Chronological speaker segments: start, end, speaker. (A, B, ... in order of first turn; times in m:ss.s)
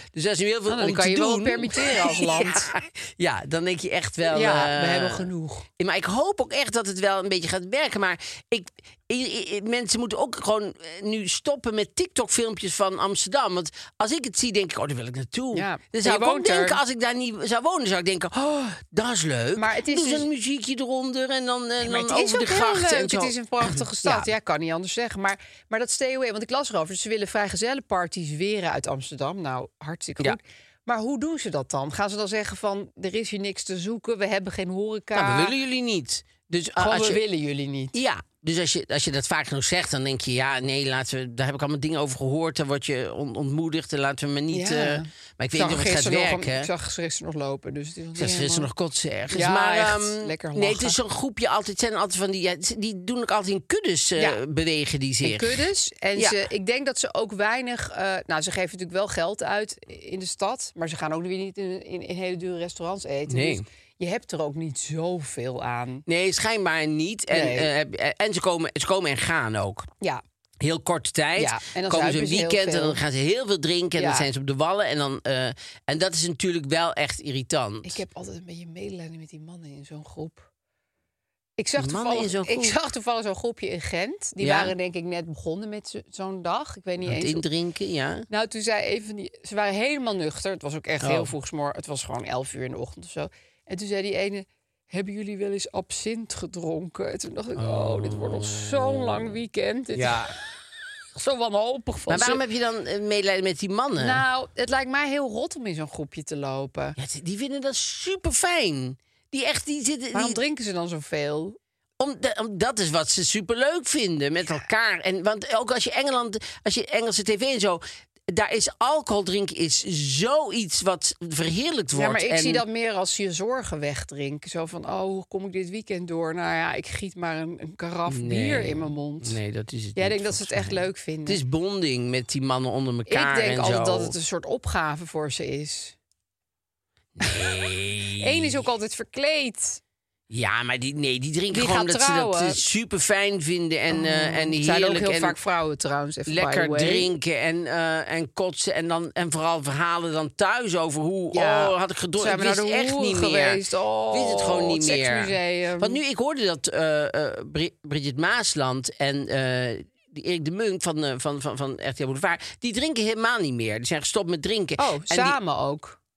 0:00.1-0:05.3 A
0:00.7-0:02.7 B
0:04.3-0:05.7 B
0:05.8-0:24.3 A
0:15.5-0:16.8 B
0:19.6-0:20.3 B
0:21.8-0:35.5 B
0:35.1-0:37.2 A
0:36.8-0:38.0 B
0:37.9-0:46.7 A
0:44.5-0:48.7 B
0:48.2-0:55.6 A
0:49.3-0:51.0 B
0:55.2-1:06.0 B
1:03.3-1:03.6 A
1:06.1-1:09.9 A
1:07.3-1:07.7 B
1:10.6-1:18.0 A
1:11.4-1:13.0 B
1:14.0-1:14.3 B
1:17.8-1:20.5 B
1:21.6-1:27.4 B
1:21.8-1:22.8 A
1:24.4-1:24.7 A
1:27.0-1:28.3 A
1:28.3-1:40.3 B
1:31.0-1:31.3 A
1:37.6-1:39.3 A
1:40.0-1:40.3 A
1:41.2-1:42.4 B
1:42.1-1:44.2 A
1:44.0-1:47.0 B
1:47.0-1:50.4 A
1:50.1-1:51.6 B
1:52.0-2:02.6 A
2:01.9-2:09.4 B
2:08.1-2:14.1 A
2:10.0-2:11.4 B
2:13.1-2:16.0 B
2:17.2-2:18.6 A
2:17.2-2:17.6 B
2:18.2-2:19.8 B
2:20.3-2:25.4 A
2:21.5-2:22.6 B
2:23.9-2:27.1 B
2:26.3-2:33.6 A
2:31.3-2:36.0 B
2:34.1-2:45.4 A
2:44.8-2:46.0 B